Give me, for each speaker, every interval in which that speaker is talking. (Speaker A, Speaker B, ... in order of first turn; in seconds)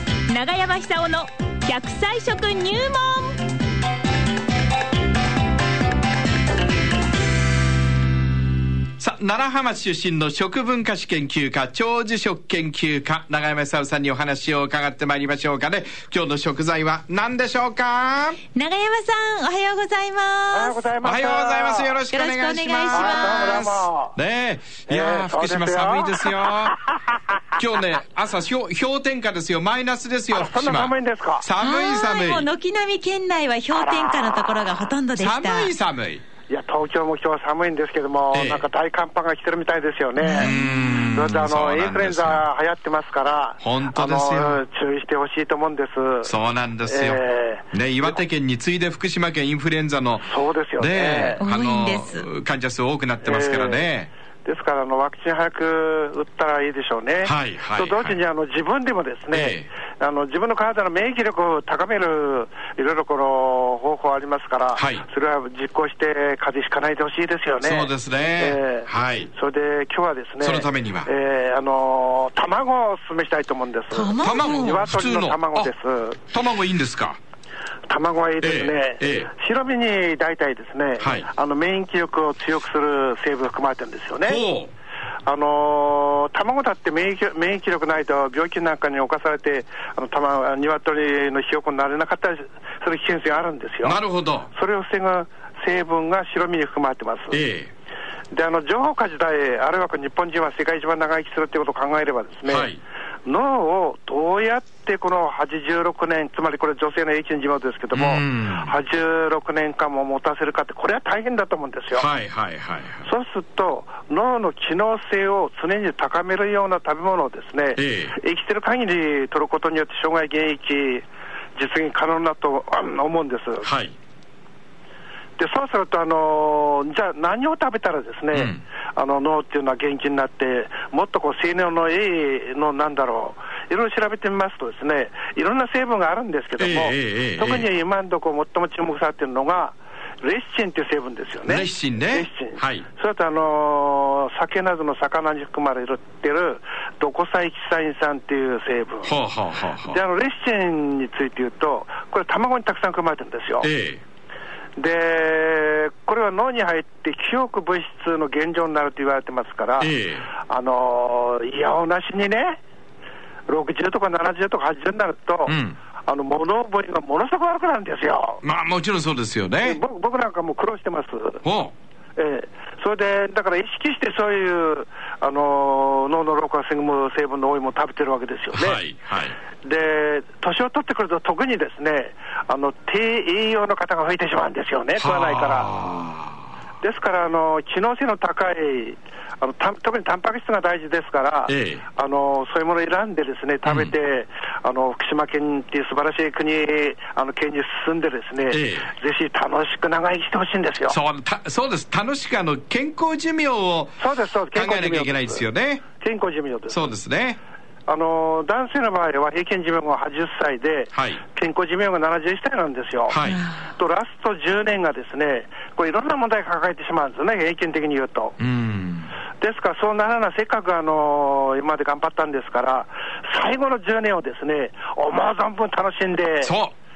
Speaker A: 0.3-3.4, 18.5-20.8, 22.1-23.6, 31.6-35.7, 40.2-40.6, 51.4-52.2, 73.9-74.8
Speaker B: 9.0-18.4, 21.0-26.8, 27.6-32.5, 35.2-36.2, 38.3-38.7, 40.3-42.4, 43.6-44.6, 46.2-54.1, 57.2-58.2, 59.3-59.7, 64.7-65.0, 67.6-69.3, 70.4-71.1, 74.2-75.7, 76.3-77.2, 78.4-79.3, 81.0-81.3, 84.2-84.7, 93.8-94.5, 97.3-97.7, 102.5-102.8, 107.9-108.7, 111.9-113.1, 117.8-118.2, 123.6-123.9, 128.3-128.6, 136.6-137.7, 141.4-142.8, 149.0-150.0, 153.6-154.0, 159.8-160.3, 165.5-165.8, 168.4-169.8, 171.4-171.7, 178.5-179.4, 185.0-186.4, 191.5-191.8, 193.7-193.9, 198.5-198.9, 200.8-204.0, 204.5-205.8, 206.7-207.4, 210.9-211.2, 213.1-213.5, 218.4-219.1, 226.4-226.7
Speaker C: 20.5-22.0, 22.9-24.1, 24.9-27.4, 30.3-31.5, 36.5-47.7, 50.2-51.4, 53.2-53.9, 54.4-76.2, 77.9-84.4, 85.2-97.4, 98.3-102.7, 103.2-112.1, 113.0-123.7, 125.4-149.2, 149.9-153.7, 154.8-162.6, 163.5-168.4, 169.6-171.4, 172.2-178.8, 179.6-185.7, 186.8-201.0, 204.0-205.4, 205.9-206.9, 207.9-218.4, 219.4-226.5